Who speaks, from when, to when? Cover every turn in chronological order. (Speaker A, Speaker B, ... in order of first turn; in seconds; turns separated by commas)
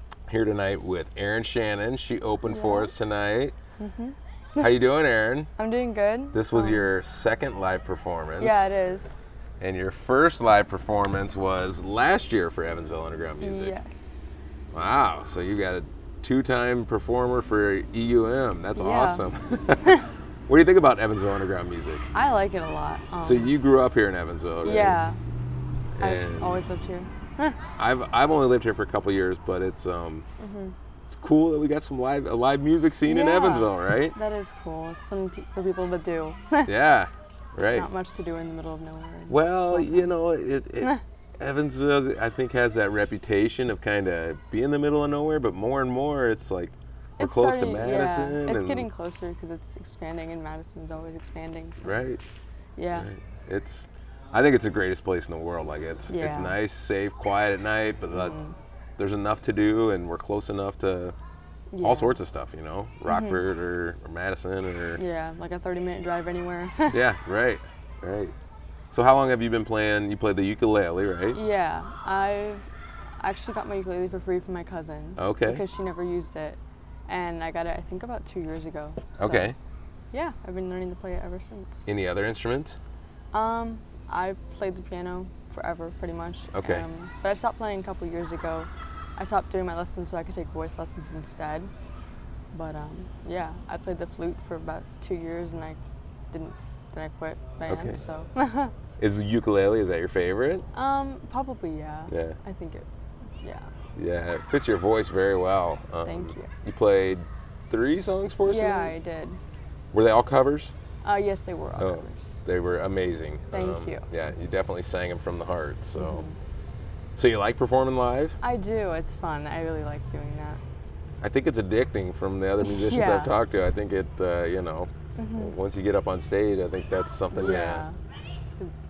Speaker A: 0.3-3.5, Speaker B: 2.5-2.9, Speaker B: 3.8-4.7, Speaker A: 4.6-5.5, Speaker B: 5.6-6.9, Speaker A: 6.3-8.7, Speaker B: 8.4-9.1, Speaker A: 9.6-13.7, Speaker B: 13.4-14.3, Speaker A: 14.7-22.1, Speaker B: 18.8-19.2, Speaker B: 22.1-23.5, Speaker A: 23.2-25.0, Speaker B: 24.6-25.2, Speaker A: 26.0-26.6, Speaker B: 26.0-27.6, Speaker A: 27.8-30.2, Speaker B: 30.4-30.7, Speaker A: 31.1-34.1, Speaker B: 33.0-36.7, Speaker A: 36.7-37.9, Speaker B: 37.6-40.1, Speaker A: 39.3-48.9, Speaker B: 47.2-52.0, Speaker A: 51.8-52.2, Speaker B: 52.8-53.1, Speaker A: 52.9-58.4, Speaker B: 56.1-56.6, Speaker B: 58.1-58.5, Speaker A: 59.0-61.1, Speaker B: 61.7-62.2, Speaker A: 61.8-65.0, Speaker B: 63.1-63.4, Speaker B: 65.0-67.0, Speaker A: 66.9-68.3, Speaker A: 68.9-71.4, Speaker B: 71.3-72.7, Speaker B: 73.2-79.5, Speaker A: 75.2-75.6, Speaker A: 79.2-79.5, Speaker B: 80.1-81.9, Speaker A: 81.9-82.8, Speaker B: 83.3-91.7, Speaker A: 86.5-86.9, Speaker B: 92.5-95.8, Speaker B: 96.3-98.7, Speaker A: 97.7-98.0, Speaker A: 99.0-100.7, Speaker B: 100.7-102.9, Speaker A: 102.1-102.4, Speaker B: 103.4-103.7, Speaker A: 104.0-109.0, Speaker B: 106.0-106.5, Speaker B: 108.4-109.4, Speaker A: 109.9-110.7, Speaker B: 111.0-112.4, Speaker A: 111.8-116.2, Speaker B: 113.5-114.1, Speaker B: 116.0-116.4, Speaker A: 117.2-118.4, Speaker B: 118.4-120.6, Speaker A: 121.2-127.8, Speaker B: 122.6-123.3, Speaker B: 125.2-125.5, Speaker B: 127.3-128.0